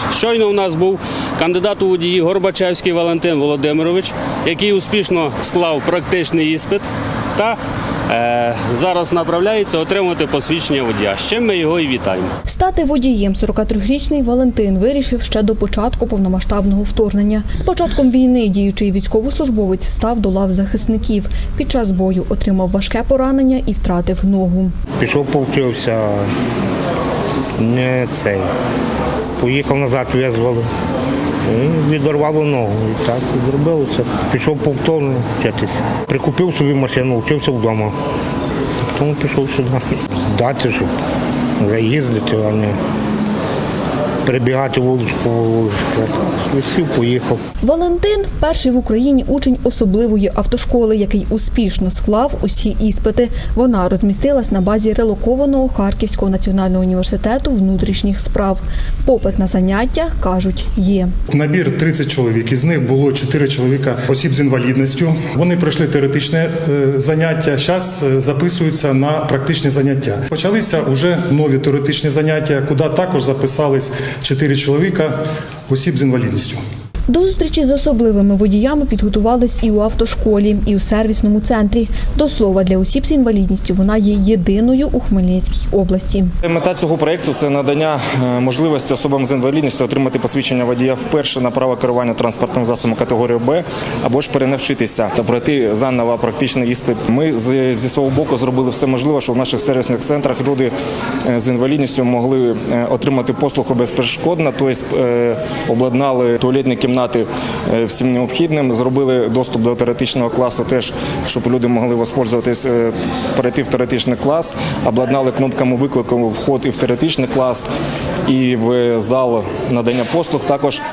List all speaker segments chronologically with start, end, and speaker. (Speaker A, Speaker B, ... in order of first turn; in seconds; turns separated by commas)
Speaker A: 0.1-6.8, Speaker A: 7.4-12.3, Speaker B: 12.5-24.7, Speaker C: 25.0-26.3, Speaker C: 27.6-28.5, Speaker C: 29.4-30.7, Speaker C: 31.4-38.0, Speaker C: 38.8-40.9, Speaker C: 41.6-42.8, Speaker C: 44.2-47.4, Speaker B: 47.6-61.1, Speaker D: 61.3-75.2, Speaker D: 75.7-76.6, Speaker B: 77.1-86.3, Speaker E: 86.4-100.7, Speaker E: 101.2-117.7, Speaker E: 118.3-120.8